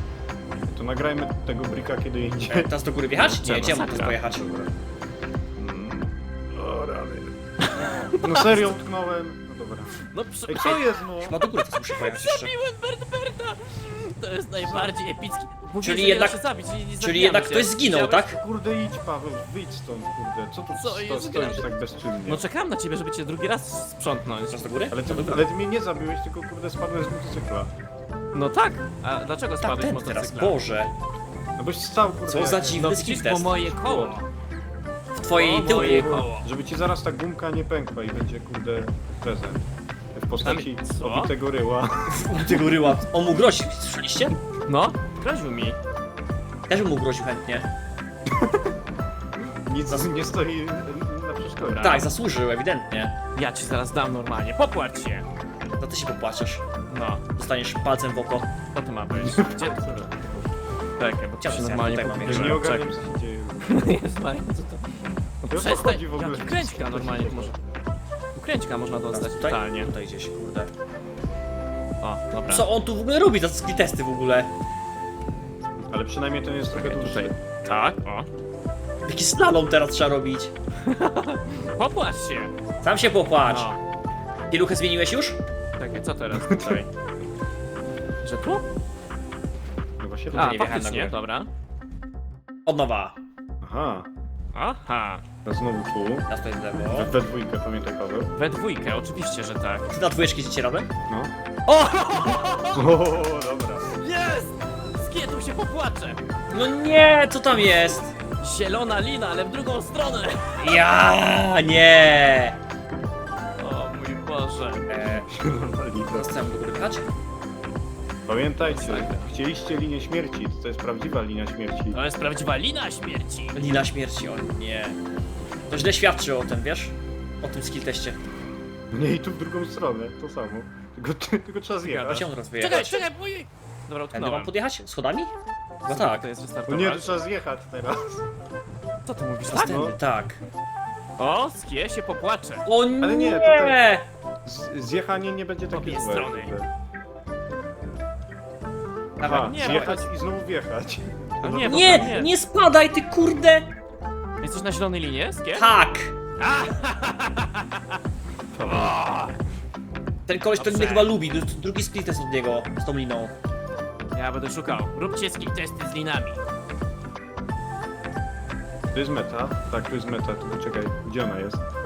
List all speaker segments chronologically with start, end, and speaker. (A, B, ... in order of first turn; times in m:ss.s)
0:00.7-0:02.7 A
0:02.5-0:04.5 B
0:03.2-0:04.2 C
0:04.2-0:04.7 A
0:05.6-0:07.4 A
0:07.6-0:08.7 C
0:08.1-0:11.4 A
0:10.0-0:10.9 C
0:11.2-0:12.5 B
0:11.9-0:18.3 C
0:14.6-0:14.9 A
0:15.8-0:16.4 B
0:17.0-0:18.4 B
0:18.3-0:22.5 A
0:20.8-0:21.7 C
0:22.2-0:24.7 C
0:24.5-0:25.4 B
0:24.9-0:27.7 A
0:28.3-0:30.6 C
0:29.6-0:30.9 B
0:31.6-0:32.8 A
0:32.3-0:33.6 B
0:32.6-0:34.3 C
0:33.6-0:34.2 A
0:35.2-0:36.3 B
0:35.3-0:42.7 A
0:35.6-0:36.5 C
0:40.4-0:41.3 C
0:42.1-0:44.4 B
0:44.7-0:45.8 C
0:46.7-0:47.7 B
0:48.3-0:48.7 A
0:49.7-0:52.1 A
0:51.6-0:52.1 C
0:51.8-0:53.2 B
0:53.4-0:55.3 C
0:55.8-0:56.6 B
0:56.9-0:57.2 C
0:57.4-0:58.5 B
0:58.7-1:00.1 C
0:59.1-1:00.4 A
1:01.0-1:03.0 C
1:01.4-1:02.6 B
1:02.2-1:04.0 A
1:03.6-1:07.6 C
1:05.5-1:07.8 A
1:08.4-1:09.9 C
1:09.1-1:10.7 B
1:12.0-1:12.6 C
1:12.5-1:14.5 B
1:15.8-1:17.4 A
1:16.7-1:18.3 C
1:19.1-1:20.5 B
1:20.8-1:22.5 C
1:22.8-1:23.7 B
1:23.5-1:23.8 C
1:24.5-1:25.4 B
1:25.8-1:26.9 C
1:26.3-1:26.8 A
1:28.2-1:28.6 C
1:30.0-1:30.6 A
1:30.3-1:31.2 B
1:30.3-1:31.5 C
1:32.7-1:33.2 B
1:33.6-1:34.1 A
1:34.6-1:35.2 C
1:35.4-1:36.3 A
1:36.3-1:37.1 B
1:36.9-1:38.3 A
1:38.4-1:39.9 C
1:39.9-1:40.9 B
1:41.1-1:41.3 A
1:41.7-1:42.9 C
1:42.7-1:43.9 A
1:43.9-1:46.2 C
1:46.5-1:48.1 B
1:48.4-1:50.8 C
1:50.6-1:52.6 B
1:53.6-1:54.9 C
1:54.9-1:55.3 B
1:55.1-1:56.4 A
1:56.1-1:57.1 B
1:58.3-2:02.0 A
1:58.7-1:59.3 C
2:01.9-2:03.6 C
2:03.5-2:05.0 B
2:05.7-2:08.2 B
2:08.9-2:12.3 A
2:11.8-2:14.5 C
2:12.0-2:13.1 B
2:14.1-2:15.3 B
2:15.9-2:16.3 B
2:15.9-2:17.2 C
2:16.7-2:18.3 A
2:19.1-2:19.8 C
2:19.5-2:20.4 B
2:19.6-2:20.0 A
2:21.2-2:22.7 C
2:22.7-2:24.1 B
2:23.0-2:23.8 A
2:24.4-2:26.7 A
2:25.7-2:26.5 C
2:29.2-2:30.0 B
2:29.2-2:32.1 A
2:29.2-2:30.0 C
2:31.4-2:32.3 C
2:31.6-2:33.7 B
2:34.4-2:35.7 C
2:35.6-2:36.1 B
2:36.4-2:38.0 C
2:38.5-2:39.0 A
2:38.7-2:39.3 C
2:40.3-2:43.3 B
2:40.6-2:41.1 C
2:44.2-2:46.4 C
2:48.9-2:51.6 A